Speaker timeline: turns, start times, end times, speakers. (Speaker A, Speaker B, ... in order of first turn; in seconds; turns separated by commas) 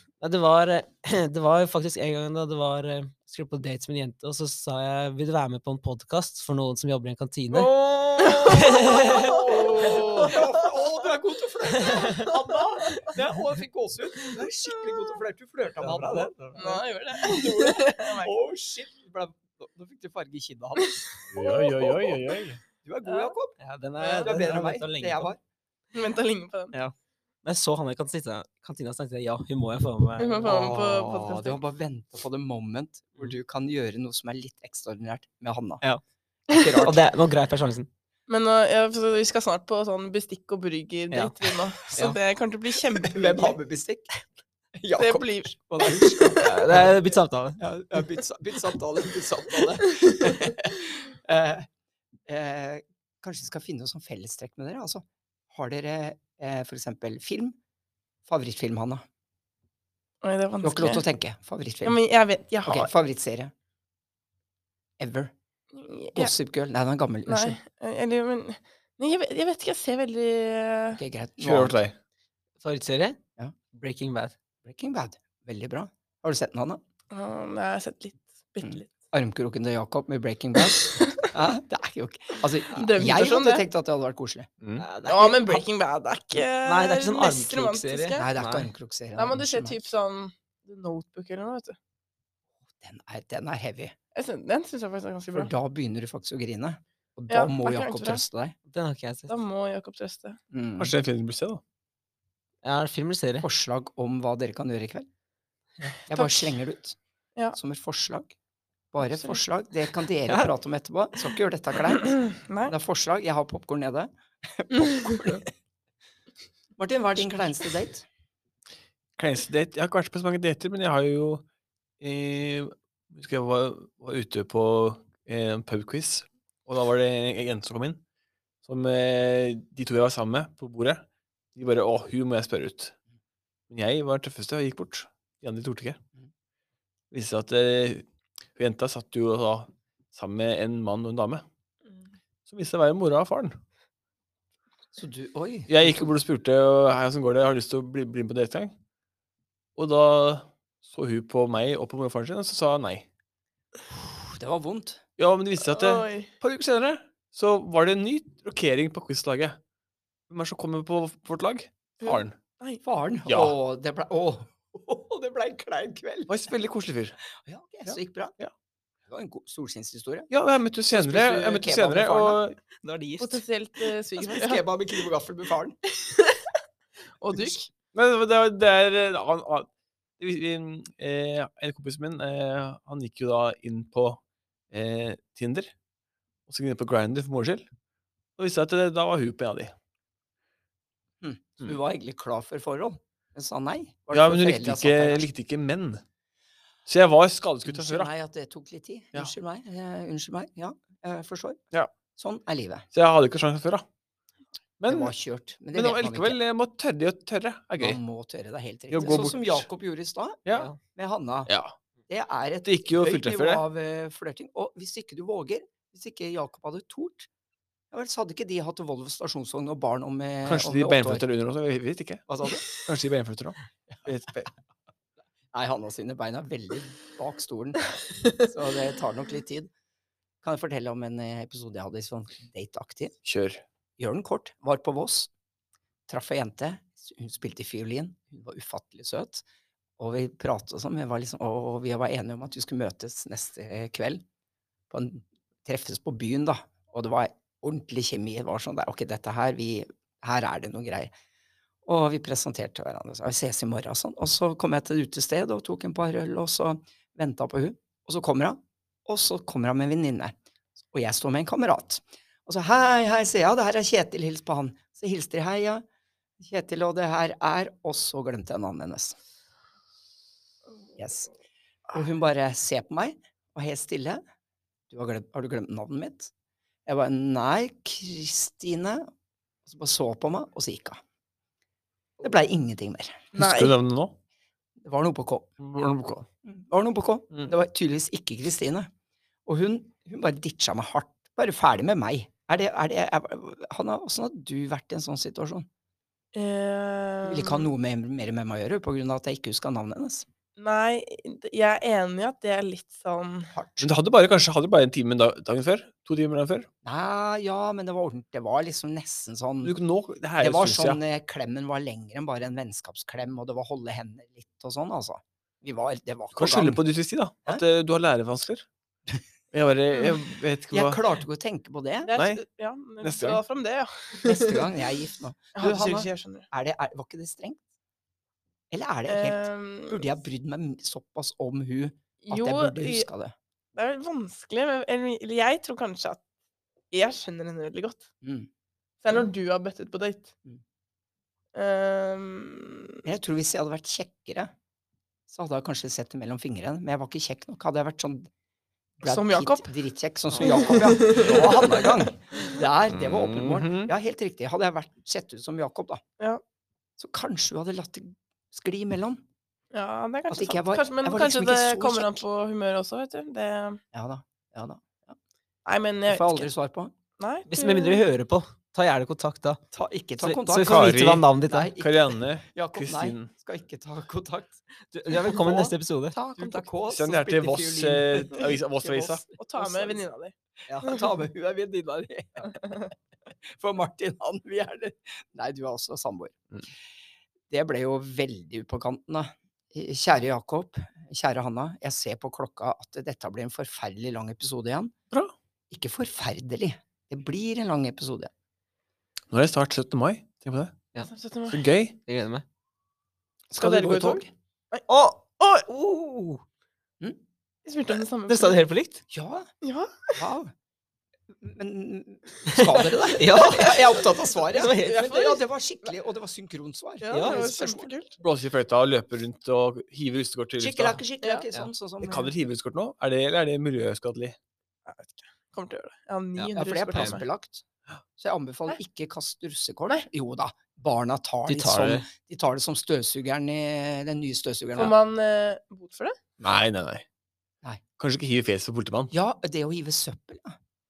Speaker A: 0.2-10.4, Speaker B: 8.2-10.4, Speaker C: 8.2-22.2, Speaker A: 11.8-12.3, Speaker A: 15.8-16.7, Speaker B: 16.6-18.3, Speaker B: 20.8-21.7, Speaker D: 21.3-22.6, Speaker C: 22.8-23.6, Speaker B: 23.0-23.3, Speaker A: 23.6-25.3, Speaker B: 24.0-24.4, Speaker C: 24.2-25.4, Speaker B: 25.9-26.7, Speaker A: 26.7-30.6, Speaker B: 30.2-31.6, Speaker C: 30.4-35.8, Speaker A: 35.8-37.9, Speaker C: 36.5-37.0, Speaker B: 38.3-43.6, Speaker A: 41.1-42.2, Speaker C: 42.9-44.2, Speaker C: 44.8-47.0, Speaker B: 45.0-46.8, Speaker A: 46.4-47.6, Speaker C: 47.6-51.7, Speaker B: 49.8-50.5, Speaker C: 52.3-57.5, Speaker C: 58.3-59.0, Speaker B: 60.2-61.0, Speaker C: 60.6-62.0, Speaker B: 61.8-62.9, Speaker C: 62.6-63.5, Speaker C: 65.0-65.3, Speaker B: 65.7-66.3, Speaker C: 66.2-67.6, Speaker B: 67.3-71.0, Speaker C: 71.0-71.8, Speaker D: 71.4-71.9, Speaker A: 72.6-73.2, Speaker A: 73.7-74.3, Speaker C: 74.6-76.8, Speaker B: 77.1-78.9, Speaker C: 78.6-84.5, Speaker B: 80.6-81.3, Speaker B: 82.7-83.6, Speaker A: 84.8-85.6, Speaker B: 85.0-88.3, Speaker A: 86.6-88.7, Speaker C: 88.2-89.8, Speaker B: 89.2-91.8, Speaker C: 92.8-93.9, Speaker B: 94.1-95.5, Speaker C: 95.3-98.5, Speaker B: 97.3-98.2, Speaker A: 98.7-99.3, Speaker B: 99.3-100.4, Speaker C: 100.5-100.9, Speaker D: 100.8-101.6, Speaker A: 102.6-103.5, Speaker C: 103.4-105.1, Speaker C: 106.1-107.0, Speaker B: 106.1-106.5, Speaker C: 107.5-108.3, Speaker C: 108.9-115.5, Speaker B: 109.0-109.4, Speaker B: 111.9-112.7, Speaker B: 114.8-115.4, Speaker C: 116.8-118.0, Speaker D: 119.2-121.4, Speaker D: 122.0-128.0, Speaker D: 128.6-132.9, Speaker D: 133.7-136.0, Speaker D: 137.1-141.4, Speaker D: 142.5-143.6, Speaker C: 144.9-146.1, Speaker D: 145.7-148.7, Speaker D: 149.8-153.1, Speaker C: 154.1-155.0, Speaker D: 155.2-159.6, Speaker B: 155.7-156.3, Speaker D: 160.3-162.3, Speaker B: 162.0-162.8, Speaker C: 162.8-166.3, Speaker D: 163.3-163.6, Speaker D: 166.3-167.2, Speaker C: 167.4-168.4, Speaker D: 167.8-168.5, Speaker C: 169.1-170.3, Speaker D: 170.3-172.6, Speaker C: 170.9-172.4, Speaker A: 172.8-173.4, Speaker B: 173.2-174.6, Speaker C: 174.2-175.8, Speaker B: 176.0-176.4, Speaker B: 177.2-177.7, Speaker D: 177.9-184.2, Speaker D: 184.7-185.7, Speaker D: 186.5-187.7, Speaker D: 188.4-189.7, Speaker C: 191.2-195.3, Speaker D: 194.1-196.0, Speaker D: 196.9-198.1, Speaker C: 197.7-201.6, Speaker C: 202.2-202.9, Speaker D: 202.9-203.8, Speaker D: 204.8-205.1, Speaker C: 204.9-206.4, Speaker D: 205.7-208.0, Speaker C: 207.8-211.5, Speaker D: 208.9-209.7, Speaker A: 210.5-210.8, Speaker D: 211.5-211.7, Speaker C: 212.1-217.3, Speaker D: 212.6-213.6, Speaker C: 217.9-221.2, Speaker D: 220.4-224.5, Speaker C: 222.3-222.7, Speaker C: 225.5-229.7, Speaker C: 230.4-233.1, Speaker D: 233.2-233.6, Speaker C: 234.0-235.3, Speaker C: 236.1-239.4, Speaker C: 240.0-244.2, Speaker C: 244.9-251.1, Speaker C: 251.8-260.3, Speaker C: 260.9-265.8, Speaker C: 266.4-269.2, Speaker C: 271.0-271.3, Speaker C: 271.9-274.2, Speaker C: 274.9-276.3, Speaker C: 276.9-279.1, Speaker C: 279.6-281.0, Speaker C: 282.2-283.3, Speaker B: 283.3-283.7, Speaker D: 283.4-284.1, Speaker C: 284.8-285.5, Speaker D: 285.6-286.2, Speaker C: 286.4-288.9, Speaker C: 289.4-295.7, Speaker B: 296.3-297.7, Speaker C: 297.2-300.3, Speaker B: 300.6-303.5, Speaker C: 303.5-303.9, Speaker D: 303.8-306.7, Speaker C: 306.8-309.7, Speaker D: 309.6-311.0, Speaker C: 310.4-316.8, Speaker D: 316.3-318.6, Speaker D: 319.5-321.0, Speaker C: 320.7-322.1, Speaker B: 322.0-324.7, Speaker D: 322.1-322.4, Speaker D: 323.0-323.4, Speaker C: 324.2-327.6, Speaker B: 325.6-326.5, Speaker C: 328.7-333.3, Speaker B: 329.1-330.1, Speaker B: 332.2-333.1, Speaker B: 333.8-336.2, Speaker B: 336.9-338.0, Speaker C: 338.2-338.5, Speaker B: 339.0-340.3, Speaker B: 341.5-343.0, Speaker C: 343.0-344.5, Speaker C: 345.3-348.3, Speaker C: 349.0-356.0, Speaker B: 349.0-349.7, Speaker B: 350.4-352.5, Speaker D: 352.9-353.9, Speaker C: 357.0-359.2, Speaker B: 359.7-363.8, Speaker C: 360.3-362.2, Speaker C: 363.9-365.1, Speaker B: 365.6-366.5, Speaker C: 366.1-366.9, Speaker B: 367.2-368.0, Speaker A: 367.5-369.6, Speaker C: 369.7-380.0, Speaker A: 370.2-371.7, Speaker D: 370.6-371.3, Speaker D: 371.8-373.3, Speaker A: 374.9-376.2, Speaker D: 376.9-379.2, Speaker B: 379.4-381.1, Speaker C: 380.8-382.9, Speaker B: 382.4-382.9, Speaker C: 383.5-386.4, Speaker C: 387.5-394.9, Speaker C: 395.7-398.3, Speaker D: 399.3-400.8, Speaker B: 401.0-401.6, Speaker D: 401.5-401.9, Speaker A: 402.1-402.4, Speaker D: 403.5-404.2, Speaker B: 403.6-404.8, Speaker A: 404.9-406.4, Speaker B: 407.6-408.6, Speaker A: 408.3-409.0, Speaker C: 409.1-409.5, Speaker B: 409.6-410.1, Speaker C: 410.1-410.5, Speaker C: 411.3-417.9, Speaker A: 412.4-415.1, Speaker B: 413.4-413.9, Speaker B: 414.7-415.4, Speaker B: 417.0-418.1, Speaker A: 417.1-417.5, Speaker D: 418.2-421.0, Speaker C: 420.6-422.3, Speaker D: 422.0-424.4, Speaker B: 424.9-427.2, Speaker C: 426.5-427.6, Speaker C: 428.2-434.9, Speaker A: 431.4-432.1, Speaker B: 434.8-436.1, Speaker D: 436.4-437.0, Speaker D: 438.0-439.1, Speaker C: 439.1-440.6